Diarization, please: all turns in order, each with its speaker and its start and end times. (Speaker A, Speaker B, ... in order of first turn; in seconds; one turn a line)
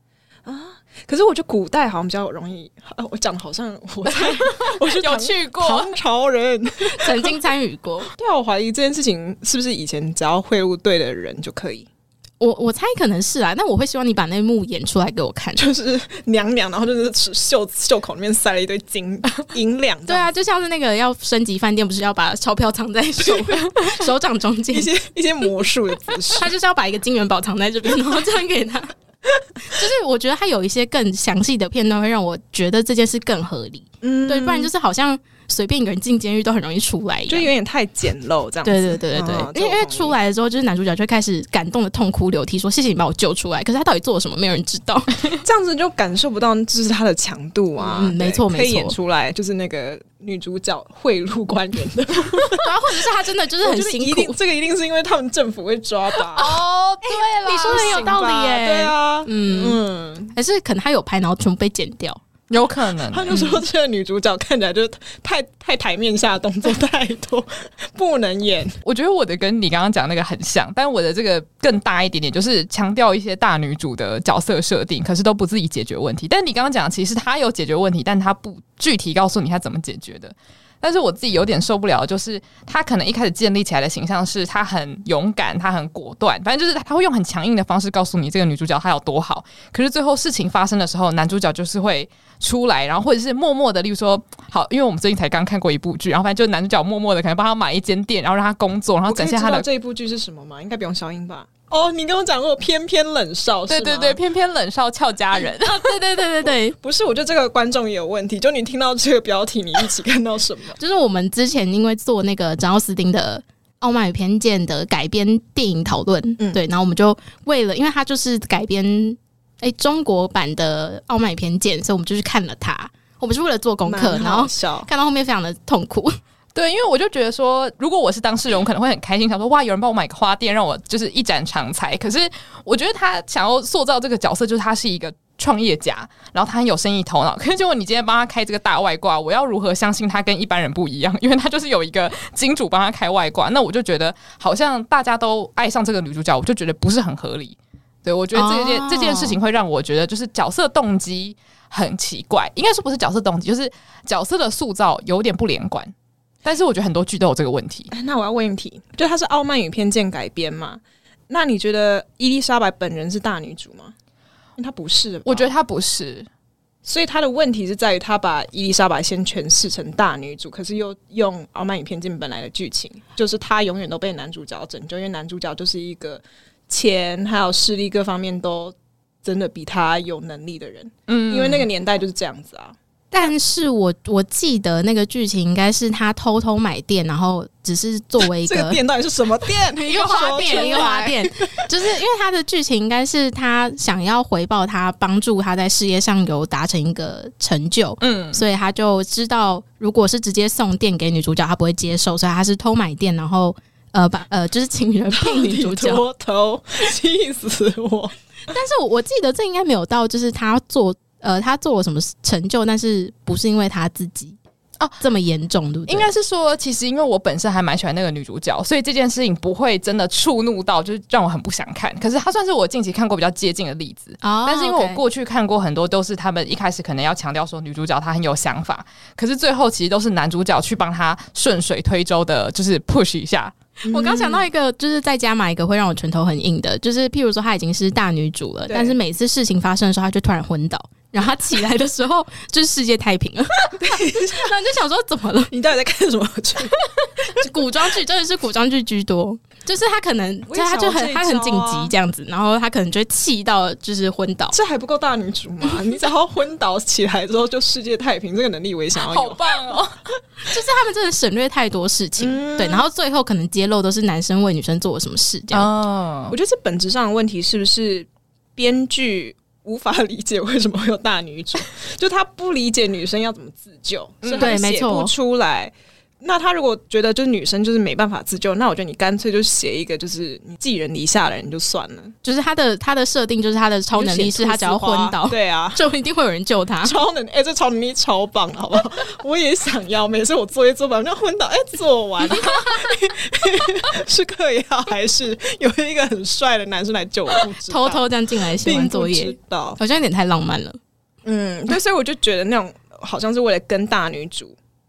Speaker A: 0.5-7.4
Speaker B: 4.2-5.9
Speaker C: 6.8-8.1
Speaker A: 8.1-11.9
Speaker C: 12.4-15.6
Speaker A: 15.6-20.3
Speaker C: 20.1-24.9
Speaker A: 23.2-23.7
Speaker A: 24.7-26.5
Speaker C: 26.3-28.9
Speaker C: 29.7-37.5
Speaker A: 34.0-34.7
Speaker A: 37.3-40.2
Speaker C: 38.6-45.2
Speaker A: 45.4-52.6
Speaker C: 47.8-49.0
Speaker C: 52.6-54.4
Speaker A: 53.6-56.6
Speaker B: 56.3-58.1
Speaker C: 57.4-59.8
Speaker A: 57.6-60.3
Speaker C: 60.3-62.2
Speaker B: 62.5-63.6
Speaker A: 63.1-68.8
Speaker B: 68.8-99.7
Speaker A: 99.1-104.2
Speaker B: 103.7-106.0
Speaker C: 105.6-106.8
Speaker A: 106.8-110.8
Speaker C: 110.8-126.2
Speaker A: 123.8-124.9
Speaker B: 126.5-155.9
Speaker C: 148.3-149.4
Speaker B: 156.4-157.9
Speaker A: 157.9-163.9
Speaker A: 164.6-165.5
Speaker B: 165.3-166.3
Speaker A: 166.8-183.3
Speaker B: 181.1-181.7
Speaker C: 183.1-188.8
Speaker A: 188.2-191.2
Speaker C: 189.8-206.0
Speaker B: 189.9-191.0
Speaker B: 198.0-198.4
Speaker A: 205.1-208.2
Speaker C: 208.5-214.4
Speaker C: 215.0-216.1
Speaker B: 215.9-233.5
Speaker C: 224.2-225.0
Speaker A: 233.8-234.5
Speaker C: 233.9-243.7
Speaker A: 238.7-239.0
Speaker A: 243.8-244.5
Speaker C: 244.3-245.5
Speaker A: 245.5-246.8
Speaker C: 247.2-254.6
Speaker A: 250.5-251.9
Speaker A: 254.5-259.4
Speaker B: 259.0-260.0
Speaker C: 260.5-265.7
Speaker A: 262.2-262.9
Speaker B: 265.5-266.4
Speaker A: 266.3-282.2
Speaker B: 274.2-274.5
Speaker C: 274.4-275.1
Speaker C: 282.2-286.9
Speaker A: 284.0-285.8
Speaker A: 286.8-298.0
Speaker C: 292.3-292.9
Speaker C: 297.6-300.8
Speaker A: 298.6-299.8
Speaker A: 301.2-304.6